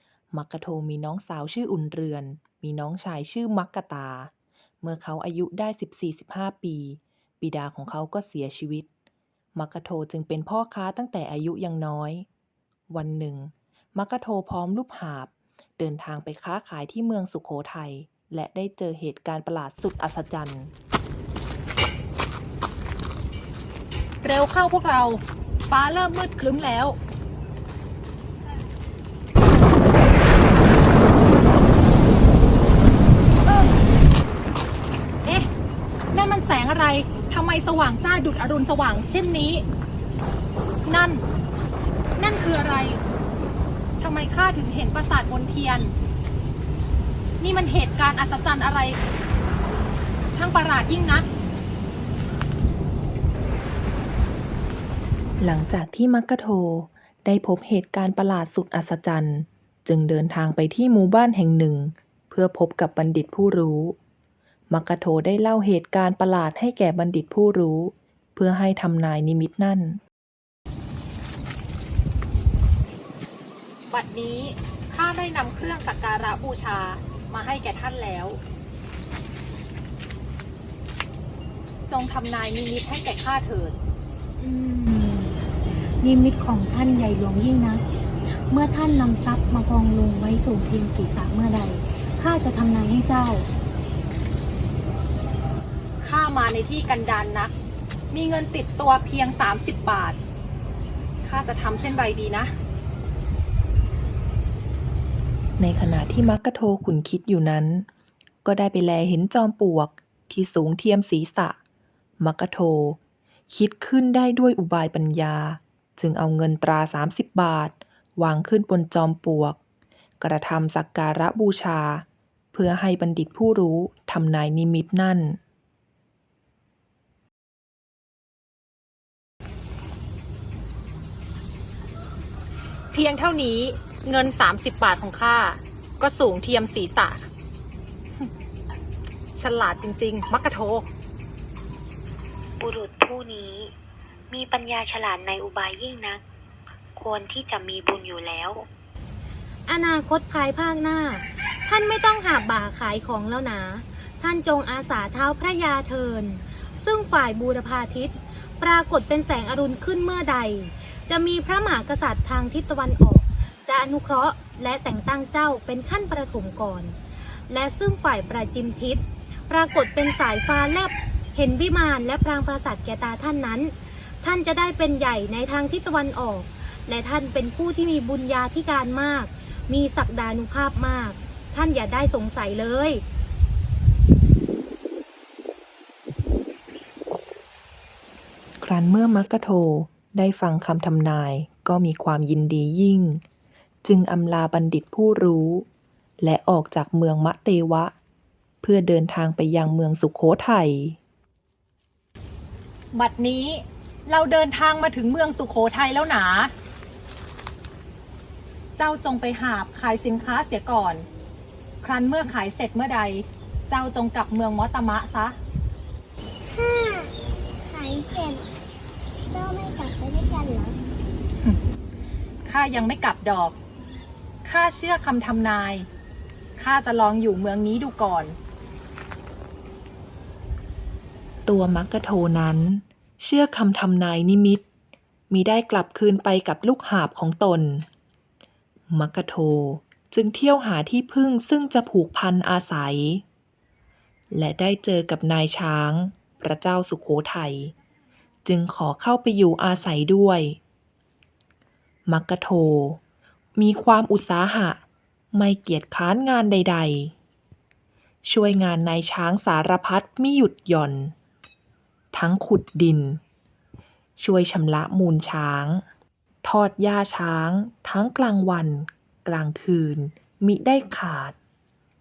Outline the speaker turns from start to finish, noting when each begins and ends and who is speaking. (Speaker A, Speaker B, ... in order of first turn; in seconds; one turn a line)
Speaker A: 0.3-8.9
Speaker A: 9.6-12.3
Speaker A: 12.9-20.7
Speaker B: 24.2-27.0
Speaker B: 35.2-35.5
Speaker B: 36.1-39.6
Speaker B: 40.9-41.3
Speaker B: 42.2-43.0
Speaker B: 44.0-45.9
Speaker B: 47.4-49.0
Speaker B: 50.4-51.3
Speaker A: 55.4-64.0
Speaker A: 64.7-70.0
Speaker B: 73.9-78.4
Speaker B: 81.9-83.8
Speaker C: 84.4-93.5
Speaker B: 96.0-97.5
Speaker B: 98.1-100.2
Speaker B: 101.2-102.5
Speaker A: 105.6-107.9
Speaker A: 108.4-111.6
Speaker A: 112.2-113.0
Speaker A: 113.5-119.6
Speaker A: 120.2-125.4
Speaker B: 132.9-137.3
Speaker B: 139.4-140.9
Speaker D: 142.6-143.7
Speaker D: 144.3-146.2
Speaker D: 147.0-148.7
Speaker C: 149.7-167.0
Speaker C: 167.5-183.0
Speaker A: 188.6-193.2
Speaker A: 193.8-195.7
Speaker A: 196.2-197.9
Speaker A: 198.6-201.0
Speaker B: 202.9-206.5
Speaker B: 208.8-211.1
Speaker B: 211.8-215.4
Speaker E: 216.5-217.1
Speaker E: 217.7-218.4
Speaker E: 219.3-220.8
Speaker B: 222.4-223.6
Speaker B: 224.4-225.9
Speaker B: 226.6-228.4
Speaker A: 231.5-234.7
Speaker A: 235.3-237.9
Speaker A: 238.9-243.2
Speaker A: 244.3-247.7
Speaker A: 248.4-250.6
Speaker A: 252.1-253.0
Speaker A: 253.6-254.8
Speaker A: 255.3-257.1
Speaker A: 258.2-261.1
Speaker A: 262.1-263.2
Speaker A: 264.2-265.8
Speaker A: 266.4-271.4